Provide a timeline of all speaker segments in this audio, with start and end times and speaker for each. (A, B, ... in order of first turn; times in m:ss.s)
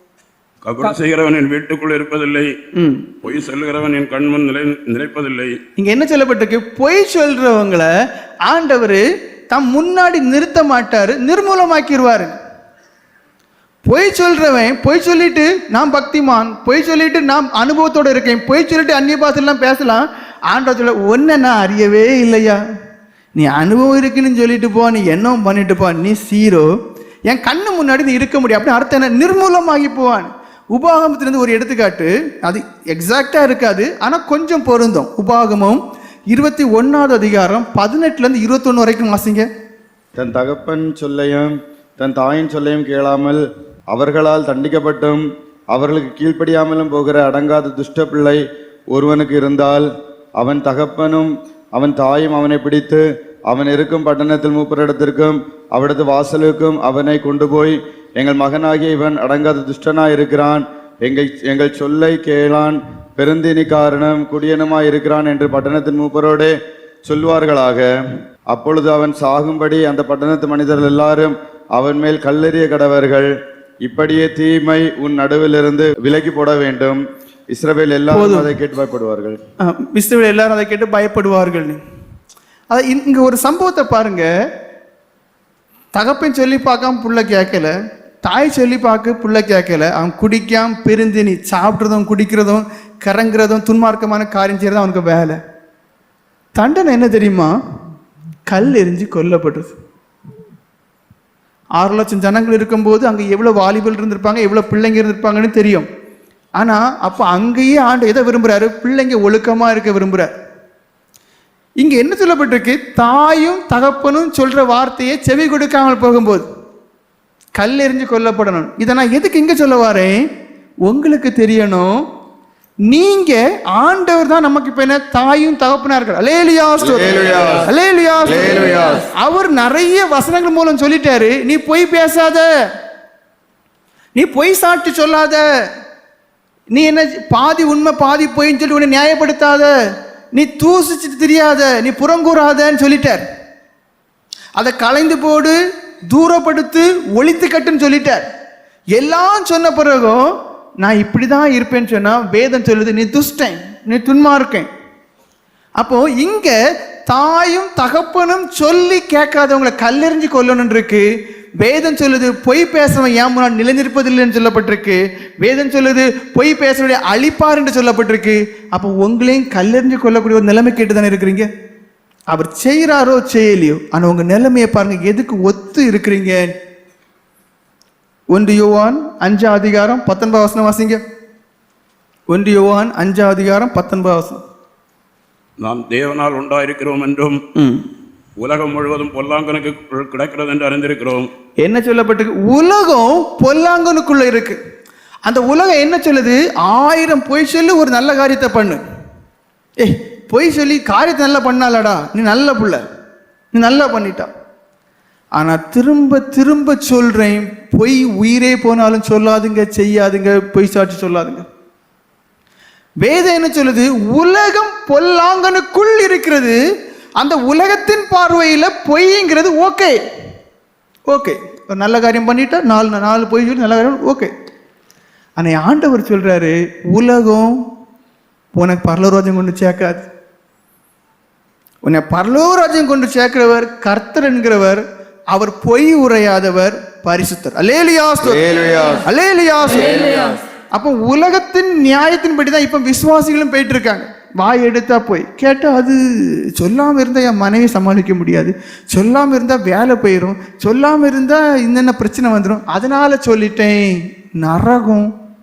0:00.6-0:02.5 A
0:02.8-0:03.1 B
0:03.2-0:05.5 A
0:05.8-0:07.9 B
0:08.5-0:12.4 B
0:13.8-0:22.6 B
0:23.4-0:26.7 B
0:27.3-0:35.8 B
0:36.3-0:39.5 B
0:40.2-0:48.4 C
0:48.9-1:06.5 C
1:07.1-1:07.9 C
1:08.5-1:13.3 C
1:13.8-1:19.4 C
1:18.1-1:18.5 B
1:19.6-1:21.8 B
1:22.7-1:24.3 B
1:25.9-1:27.7 B
1:28.2-1:35.4 B
1:36.6-1:37.5 B
1:38.5-1:39.7 B
1:41.8-1:45.9 B
1:46.6-1:50.3 B
1:51.8-1:56.4 B
1:57.6-2:00.2 B
2:00.9-2:01.9 B
2:02.9-2:12.5 B
2:07.0-2:07.6 C
2:08.6-2:08.8 C
2:14.2-2:15.4 B
2:16.7-2:19.7 B
2:20.4-2:23.2 B
2:24.6-2:25.6 B
2:26.1-2:28.2 B
2:29.0-2:30.3 B
2:30.8-2:34.7 B
2:35.8-2:41.0 B
2:41.6-2:51.5 B
2:52.3-2:56.5 B
2:58.3-3:01.0 B
3:02.3-3:04.4 B
3:05.6-3:07.4 A
3:07.6-3:07.8 B
3:08.4-3:11.3 A
3:11.6-3:14.6 B
3:15.2-3:18.8 B
3:19.8-3:22.8 B
3:23.5-3:24.3 B
3:25.4-3:31.4 B
3:33.0-3:36.6 B
3:37.2-3:40.0 B
3:41.1-3:44.3 B
3:45.4-3:47.6 B
3:48.5-3:50.1 B
3:51.8-3:58.4 B
3:58.4-3:58.9 C
3:59.0-4:15.1 B